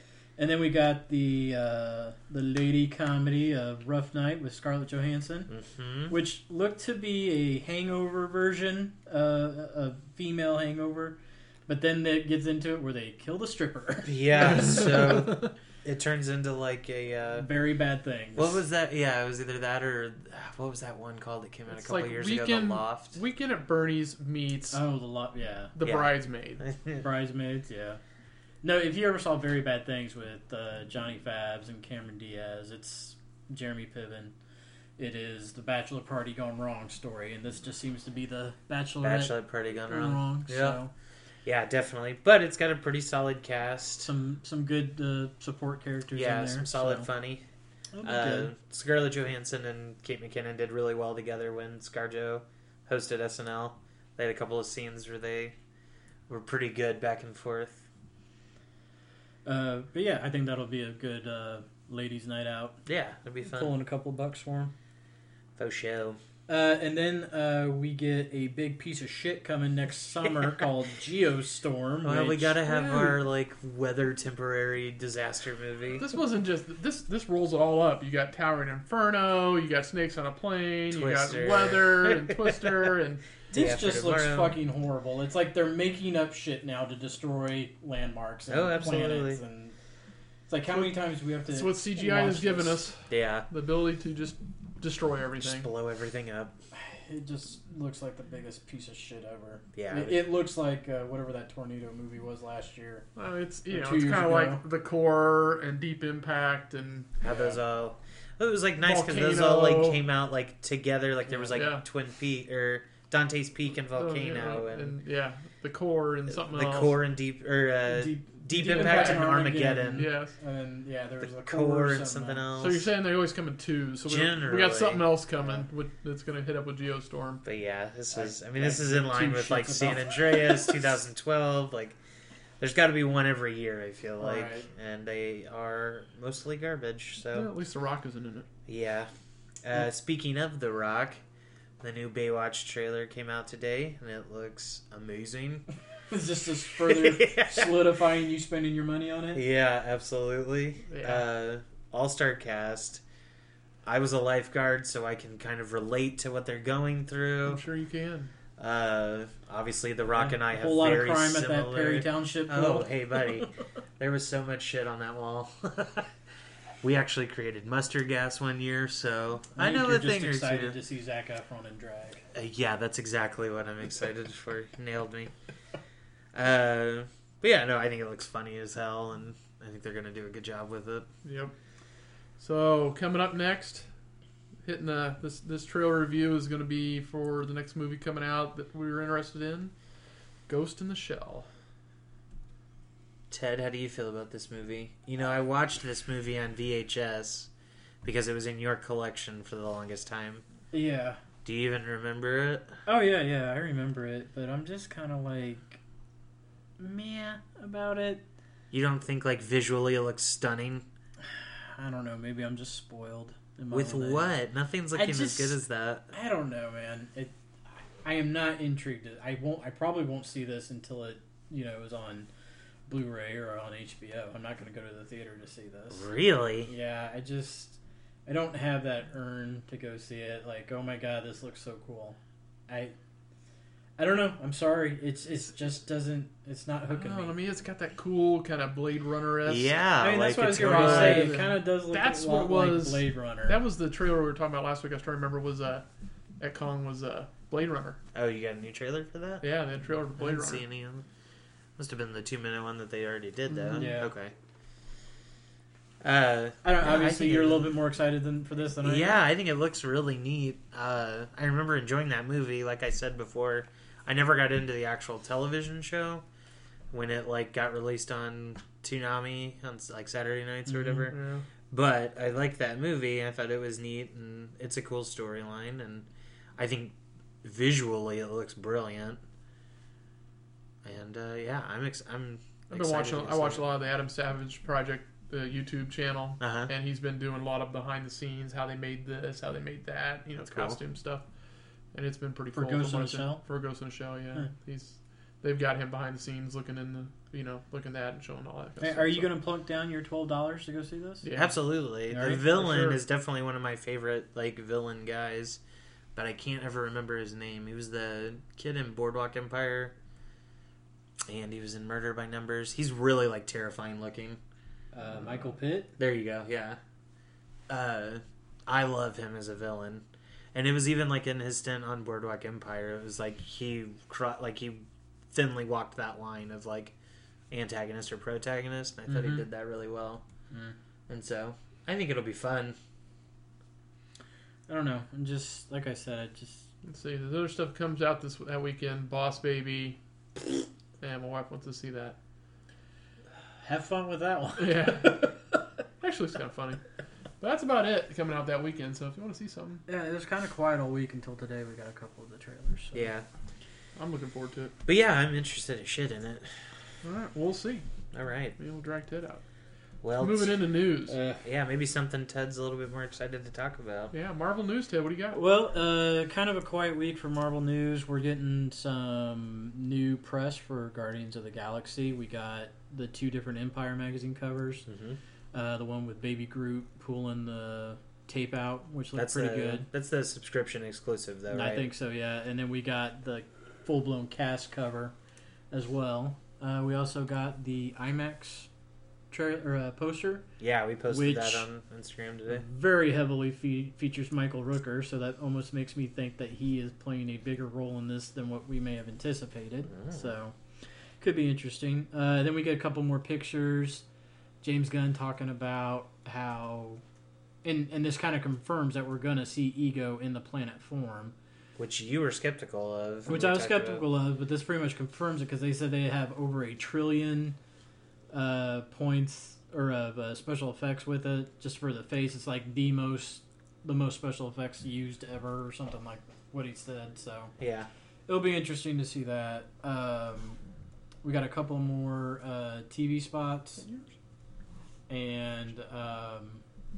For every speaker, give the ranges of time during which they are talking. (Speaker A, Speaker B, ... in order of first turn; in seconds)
Speaker A: 0.4-5.5, 6.1-14.9, 17.4-18.6, 24.7-25.7, 27.0-28.0, 28.6-34.3, 35.0-40.9, 44.0-47.1, 47.9-48.5, 59.5-62.8, 63.5-64.7, 66.5-72.6, 83.5-89.8, 90.5-92.9, 96.7-103.1, 103.7-104.6, 111.3-111.6, 117.9-122.5, 128.1-130.8, 134.2-134.7, 146.1-149.4, 160.1-162.9, 169.6-172.2, 200.7-201.2, 202.9-205.8, 206.8-208.2, 211.2-214.4, 214.9-215.6, 216.1-222.3, 222.9-226.1, 226.6-232.9, 234.0-237.4, 240.0-243.6, 253.7-254.1, 256.6-259.2, 292.5-293.4, 298.8-301.3, 302.1-302.4, 314.9-315.9, 329.1-329.4, 330.5-330.8, 334.7-336.7, 343.6-345.3, 349.9-353.1, 361.1-361.4, 365.3-374.9, 375.5-379.9, 381.5-385.1, 385.7-388.7, 389.3-390.5, 391.1-391.7, 392.5-400.6, 401.2-404.1, 404.6-407.0, 407.6-411.4, 413.3-417.6, 418.3-427.5, 428.3-430.6, 431.2-433.9, 435.1-436.6
Speaker B: 5.5-6.2, 14.1-17.5, 18.4-23.2, 25.8-27.1, 39.0-40.8, 41.5-44.1, 46.1-47.5, 48.0-55.5, 56.3-57.9, 62.9-63.7, 65.6-66.2, 72.0-76.0, 80.9-83.0, 83.5-84.5, 88.5-89.4, 93.1-93.5, 95.4-96.5, 99.7-100.2, 107.2-114.9, 116.3-120.1, 121.2-122.9, 124.1-125.1, 127.5-132.0, 132.6-137.5, 138.7-139.1, 139.6-141.2, 141.8-145.7, 146.8-147.8, 149.3-153.0, 153.9-157.6, 158.6-166.1, 166.8-170.8, 172.3-175.3, 176.3-181.1, 193.3-197.5, 198.0-200.4, 201.4-202.8, 208.7-210.9, 213.7-216.1, 225.9-226.7, 239.4-241.4, 248.1-249.5, 250.2-251.1, 251.8-254.3, 256.0-257.7, 258.8-266.2, 266.9-271.2, 271.7-279.2, 280.8-283.6, 286.4-286.7, 290.4-290.8, 301.4-305.6, 306.1-309.9, 311.3-314.4, 316.0-316.8, 317.7-326.9, 327.5-330.2, 331.1-332.8, 352.9-353.3, 354.9-356.7, 358.1-358.6, 360.0-360.6, 361.4-364.1, 374.9-375.2, 379.1-381.9, 390.6-392.6, 399.9-400.3, 411.8-414.1, 427.6-427.9
Speaker C: 21.7-24.8, 25.8-26.6, 72.7-73.2, 76.0-83.2, 90.7-95.7, 103.2-107.5, 108.8-110.0, 111.5-111.8, 114.0-117.0, 118.7-119.3, 120.0-120.3, 122.6-127.4, 137.3-138.5, 150.9-151.2, 157.4-158.3, 181.2-181.5, 182.4-183.9, 184.6-189.7, 190.5-191.5, 236.9-239.8, 240.5-245.9, 246.4-248.0, 249.4-250.6, 253.5-254.0, 271.1-271.4, 282.7-291.2, 291.9-299.3, 301.2-301.6, 302.4-303.0, 336.8-340.0, 341.0-342.2, 344.6-345.3, 346.0-346.8, 347.4-349.8, 354.0-354.7, 357.0-357.9, 358.6-359.4, 360.2-361.2, 364.1-365.4